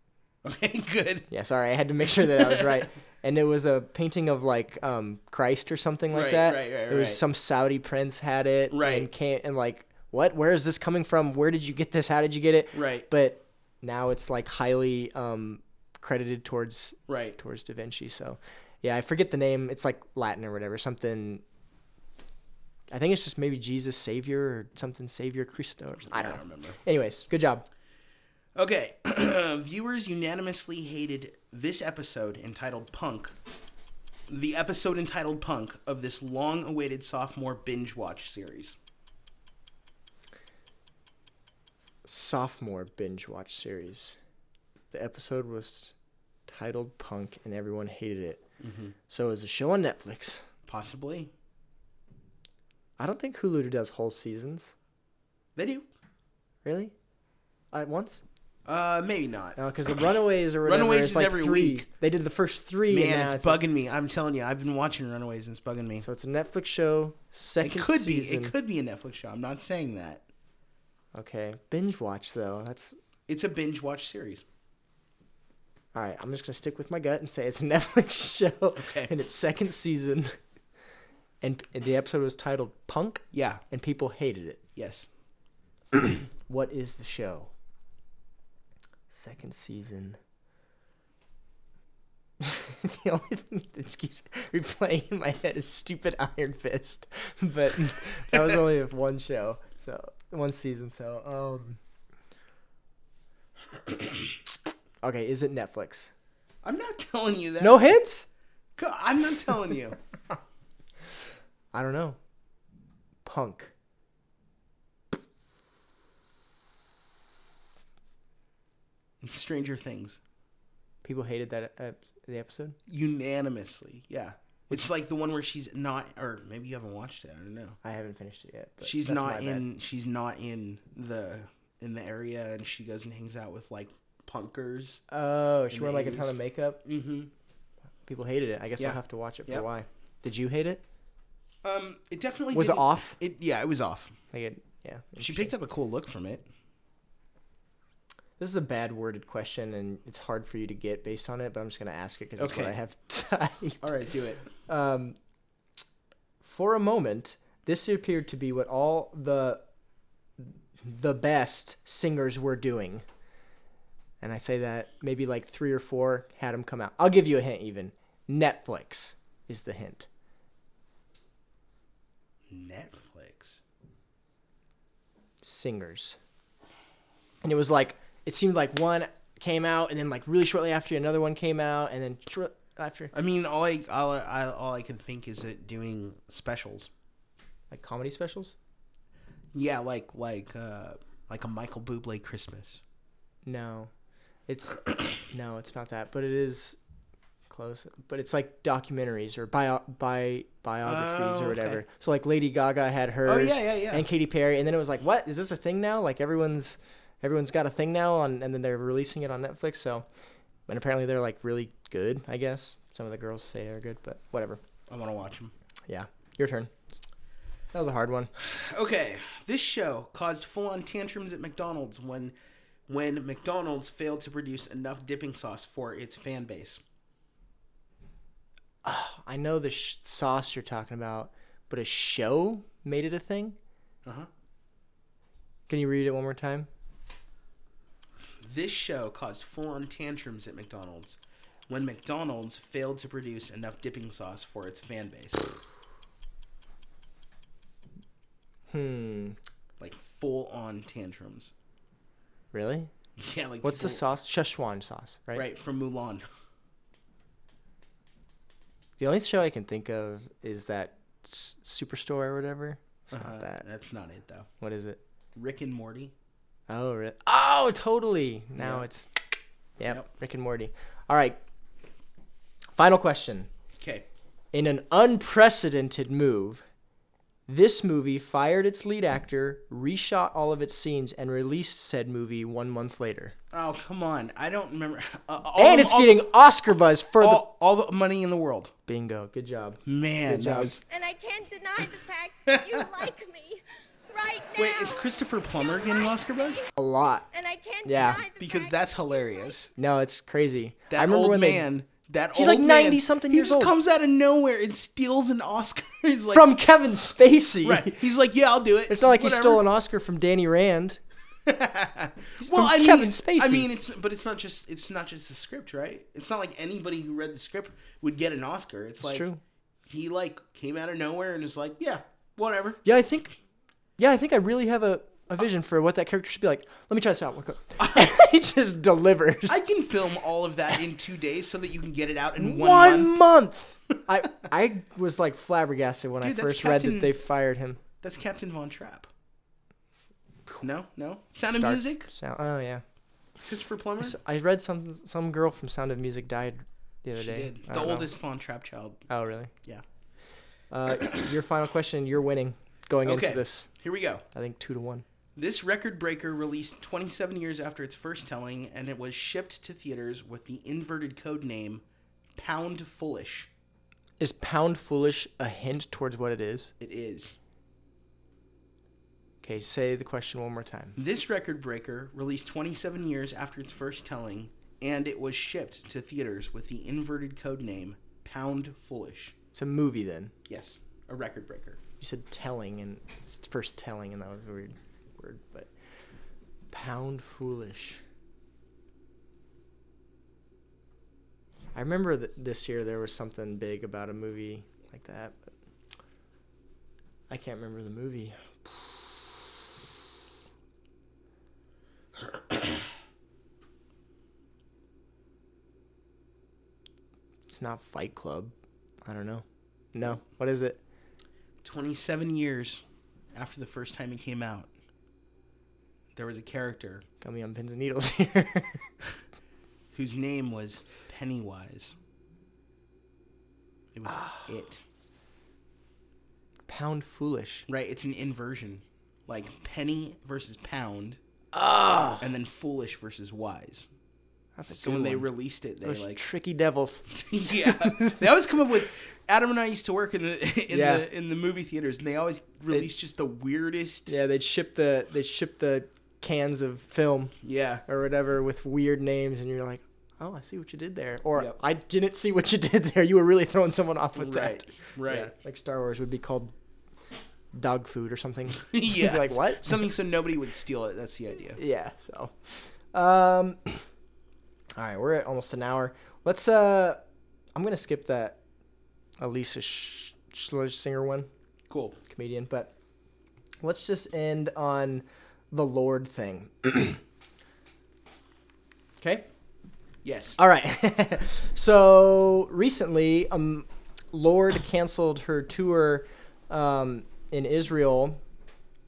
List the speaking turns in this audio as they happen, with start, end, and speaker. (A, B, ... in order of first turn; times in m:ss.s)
0:00.4-0:01.3 A
0:01.3-0:21.4 B
0:02.3-0:02.8 A
0:06.1-0:07.2 A
0:08.7-0:09.1 A
0:12.7-0:13.1 A
0:17.1-0:17.4 A
0:22.9-0:27.6 B
0:26.1-0:26.8 A
0:28.6-0:33.4 A
0:34.3-0:38.8 A
0:42.0-0:44.2 B
0:44.9-0:46.0 B
0:46.5-0:48.4 B
0:48.6-0:49.0 A
0:49.1-0:50.5 B
0:50.7-0:51.3 A
0:53.0-0:54.7 B
0:55.6-0:55.9 A
0:56.6-0:56.9 B
0:57.7-0:58.2 B
0:58.7-0:59.6 A
0:59.6-1:03.6 B
1:00.6-1:01.9 A
1:02.9-1:06.1 A
1:06.0-1:08.5 B
1:07.6-1:10.2 A
1:11.2-1:13.0 B
1:13.3-1:14.4 A
1:15.9-1:20.4 B
1:18.8-1:19.1 A
1:21.4-1:24.6 B
1:23.3-1:23.6 A
1:24.8-1:25.1 A
1:26.5-1:27.5 B
1:29.1-1:30.2 B
1:32.4-1:41.8 B
1:45.0-1:46.1 B
1:46.6-1:47.9 A
1:47.6-1:48.3 B
1:48.8-1:50.0 A
1:51.7-1:52.2 B
1:53.2-1:53.7 B
1:59.2-2:00.2 A
2:01.0-2:02.8 B
2:02.9-2:07.8 A
2:07.8-2:09.6 B
2:08.8-2:15.0 A
2:15.1-2:16.8 B
2:15.7-2:17.3 A
2:18.0-2:20.8 B
2:18.8-2:19.7 A
2:21.6-2:24.2 A
2:22.5-2:23.2 B
2:24.3-2:25.5 B
2:25.2-2:26.5 A
2:28.4-2:33.9 B
2:32.4-2:32.8 A
2:33.8-2:34.4 A
2:34.6-2:35.2 B
2:36.4-2:39.6 B
2:40.4-2:43.0 B
2:44.2-2:50.1 B
2:52.5-2:53.6 A
2:55.4-2:56.2 B
2:57.4-3:03.1 B
3:03.1-3:06.9 A
3:07.7-3:08.5 B
3:09.5-3:12.8 A
3:13.4-3:13.9 B
3:14.5-3:16.8 B
3:17.5-3:30.0 B
3:20.8-3:21.8 A
3:23.2-3:24.0 A
3:30.7-3:34.6 B
3:34.9-3:35.5 A
3:35.9-3:36.7 B
3:37.7-3:38.3 B
3:38.4-3:42.4 A
3:42.9-3:46.8 A
3:48.8-3:53.6 B
3:55.7-3:56.7 B
3:58.4-4:05.5 A
4:08.7-4:09.4 B
4:09.8-4:11.5 A
4:12.5-4:12.9 B
4:13.2-4:14.0 A
4:13.6-4:15.5 B
4:15.3-4:16.2 A
4:19.0-4:23.6 B
4:23.1-4:24.5 A
4:24.6-4:25.0 B
4:25.4-4:26.1 A
4:26.7-4:29.2 B
4:28.6-4:28.9 A
4:29.8-4:31.4 B
4:32.8-4:33.5 B
4:33.8-4:34.1 A
4:34.5-4:36.6 B
4:37.5-4:43.4 B
4:43.5-4:46.2 A
4:45.6-4:47.4 B
4:47.2-4:48.7 A
4:48.9-4:50.8 B
4:49.9-4:50.8 A
4:50.9-4:56.7 C
4:52.5-4:52.9 A
4:54.6-4:56.6 A
4:56.8-4:57.3 B
4:57.3-4:59.5 C
4:57.8-4:58.2 B
4:58.4-4:59.7 A
4:59.8-5:01.7 B
5:00.9-5:06.5 A
5:02.3-5:03.7 B
5:06.3-5:08.0 B
5:07.6-5:09.6 A
5:08.9-5:11.0 B
5:11.4-5:19.3 A
5:12.4-5:13.7 B
5:19.0-5:19.4 B
5:19.9-5:22.8 A
5:22.8-5:23.4 B
5:24.0-5:29.6 B
5:27.8-5:28.2 A
5:29.5-5:33.2 A
5:32.4-5:37.8 B
5:36.2-5:37.1 A
5:38.0-5:39.1 A
5:40.6-5:42.1 A
5:41.6-5:42.8 B
5:43.4-5:44.2 A
5:44.0-5:48.1 B
5:47.2-5:49.1 A
5:49.1-5:49.5 B
5:50.7-5:53.8 B
5:53.0-5:54.2 A
5:54.3-5:55.0 B
5:55.4-6:01.8 A
6:02.4-6:03.5 A
6:04.2-6:06.7 B
6:06.8-6:07.4 A
6:09.4-6:11.0 B
6:11.0-6:19.4 A
6:19.5-6:20.3 B
6:20.5-6:21.8 A
6:22.0-6:25.7 B
6:26.7-6:28.0 B
6:31.7-6:35.4 B
6:37.3-6:39.4 B
6:47.5-6:48.5 B
6:49.0-6:50.8 B
6:51.6-6:54.7 A
6:56.2-6:57.1 A
6:57.2-6:58.9 B
6:59.9-7:02.0 A
7:03.9-7:04.8 A
7:04.1-7:04.4 B
7:06.7-7:07.7 B
7:07.7-7:11.2 A
7:11.5-7:12.3 B
7:12.2-7:13.9 A
7:14.6-7:15.3 B
7:14.7-7:16.2 A
7:15.8-7:18.2 B
7:17.1-7:24.1 A
7:20.7-7:21.0 B
7:24.1-7:36.5 B
7:27.4-7:27.8 A
7:34.2-7:35.3 A
7:37.5-7:39.8 B
7:38.6-7:41.6 A
7:41.6-7:43.8 B
7:44.8-7:47.0 B
7:47.6-7:48.4 B
7:49.2-7:51.3 B
7:51.7-7:52.0 A
7:52.1-7:52.7 B
7:53.6-7:57.0 B
7:59.0-7:59.3 B
8:00.0-8:00.4 A
8:00.4-8:08.2 B